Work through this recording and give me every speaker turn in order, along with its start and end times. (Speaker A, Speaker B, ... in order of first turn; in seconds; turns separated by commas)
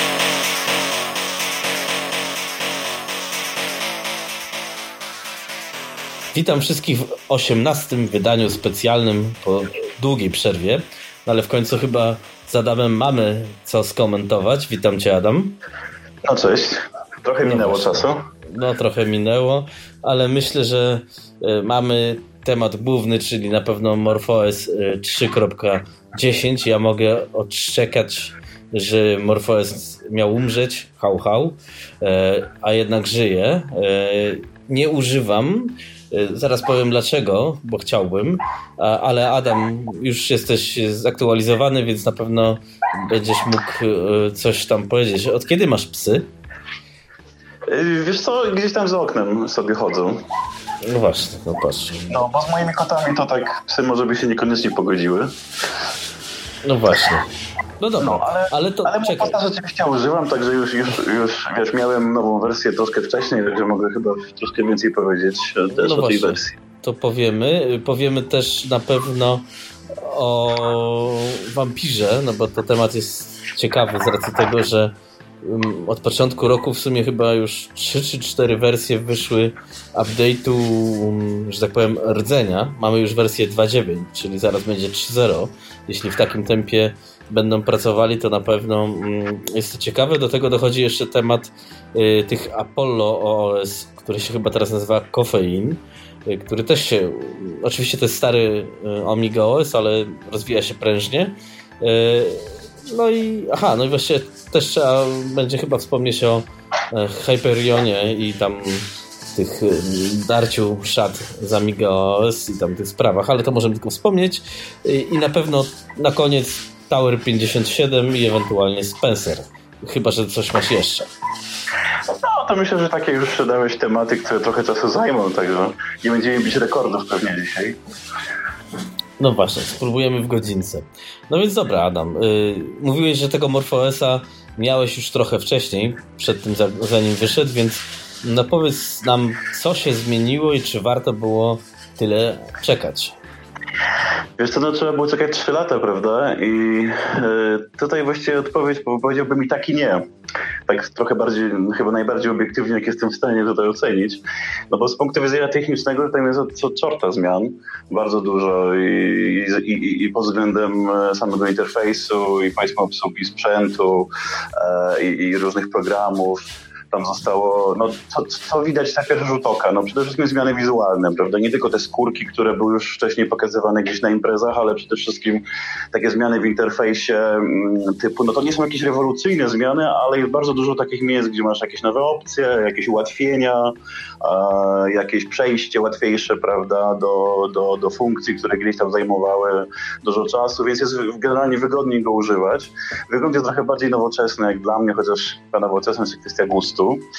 Speaker A: 6.3-15.5, Speaker B: 16.2-18.2, Speaker A: 17.4-46.2, Speaker B: 47.7-50.2, Speaker A: 50.8-52.2, Speaker B: 52.1-55.3, Speaker A: 56.6-57.3, Speaker A: 57.8-59.4, Speaker B: 58.0-66.6, Speaker A: 65.7-121.1, Speaker B: 122.2-127.8, Speaker A: 129.2-143.1, Speaker B: 144.4-150.0, Speaker B: 150.7-197.0